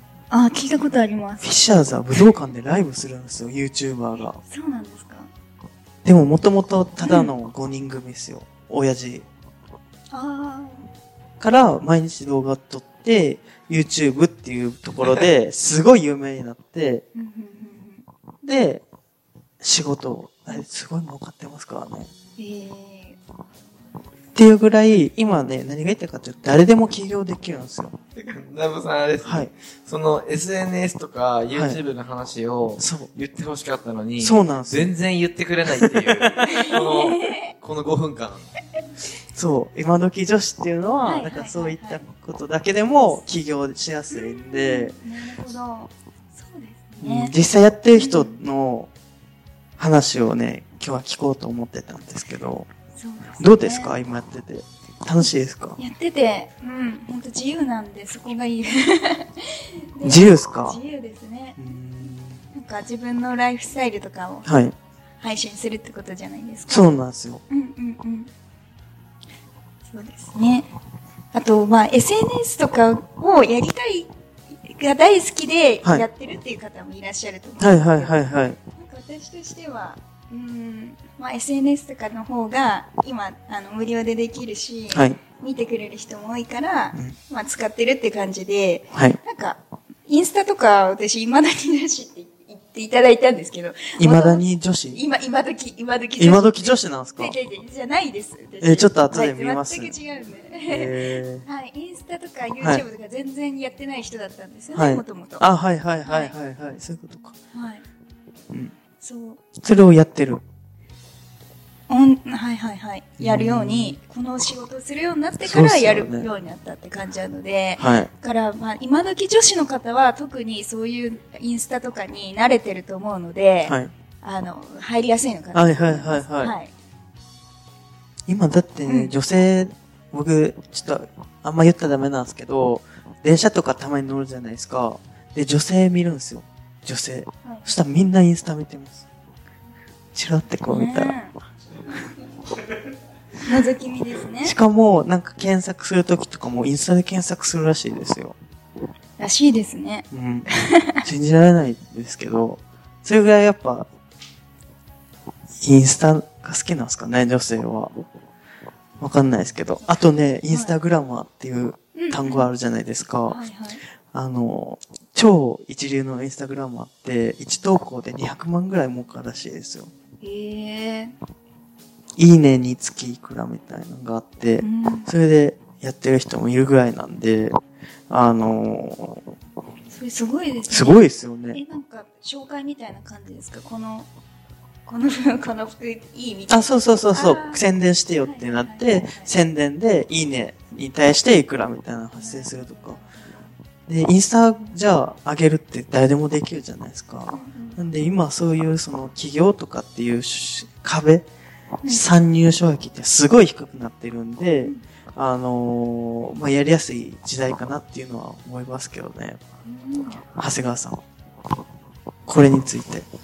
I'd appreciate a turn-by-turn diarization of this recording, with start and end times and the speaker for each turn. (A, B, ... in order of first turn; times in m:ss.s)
0:00.3-0:01.6 A
0:01.4-0:04.4 B
0:04.4-0:05.3 A
0:06.0-0:09.2 B
0:10.1-0:10.9 A
0:11.4-0:17.0 B
0:17.1-0:18.0 A
0:18.4-0:18.8 B
0:19.6-0:22.1 B
0:22.4-0:23.2 A
0:24.3-0:28.0 B
0:28.1-0:38.5 C
0:29.2-0:29.5 B
0:31.5-0:31.8 B
0:32.8-0:33.1 B
0:34.2-0:34.9 B
0:35.6-0:36.7 B
0:36.4-0:37.5 A
0:39.3-0:45.0 B
0:41.0-0:42.0 A
0:44.1-0:47.3 A
0:47.0-0:48.9 B
0:47.9-0:48.4 A
0:49.8-0:52.7 B
0:52.9-0:53.9 A
0:53.4-0:55.8 B
0:55.8-1:01.6 A
1:00.0-1:00.8 B
1:01.6-1:02.4 B
1:02.5-1:04.5 A
1:04.4-1:04.7 B
1:05.2-1:06.9 A
1:06.7-1:07.4 B
1:07.5-1:08.3 A
1:09.9-1:10.7 A
1:11.3-1:14.1 A
1:14.6-1:18.2 A
1:17.6-1:18.6 B
1:18.7-1:45.5 A
1:24.9-1:25.2 B
1:28.9-1:29.2 B
1:34.0-1:35.0 B
1:36.2-1:37.3 B
1:38.6-1:40.0 B
1:40.7-1:41.4 B
1:44.7-1:47.3 B
1:46.0-1:46.3 A
1:47.5-1:47.8 A
1:49.0-1:49.4 A
1:49.6-1:50.4 B
1:51.9-2:06.7 A
1:53.2-1:54.0 B
1:55.4-1:56.3 B
1:57.8-1:58.1 B
2:03.6-2:03.9 B
2:05.5-2:06.5 B
2:08.3-2:19.0 B
2:08.9-2:09.1 A
2:17.4-2:17.8 A
2:20.1-2:21.1 B
2:20.6-2:21.3 A
2:23.4-2:24.6 A
2:24.4-2:28.3 B
2:29.2-2:31.0 A
2:30.1-2:30.5 B
2:31.0-2:33.9 B
2:35.6-2:37.9 B
2:39.0-2:43.4 B
2:39.8-2:40.7 A
2:41.9-2:42.5 A
2:43.3-2:43.8 A
2:44.1-2:49.9 B
2:50.2-2:51.1 A
2:52.2-2:57.6 B
2:54.6-2:55.1 A
2:58.1-2:59.3 B
2:59.9-3:04.1 A
3:00.7-3:01.6 B
3:04.8-3:07.6 A
3:06.5-3:13.0 B
3:08.2-3:09.3 A
3:12.1-3:13.5 A
3:13.9-3:21.3 B
3:17.3-3:17.8 A
3:21.8-3:29.4 B
3:29.6-3:30.2 A
3:30.2-3:31.0 B
3:32.2-3:33.0 B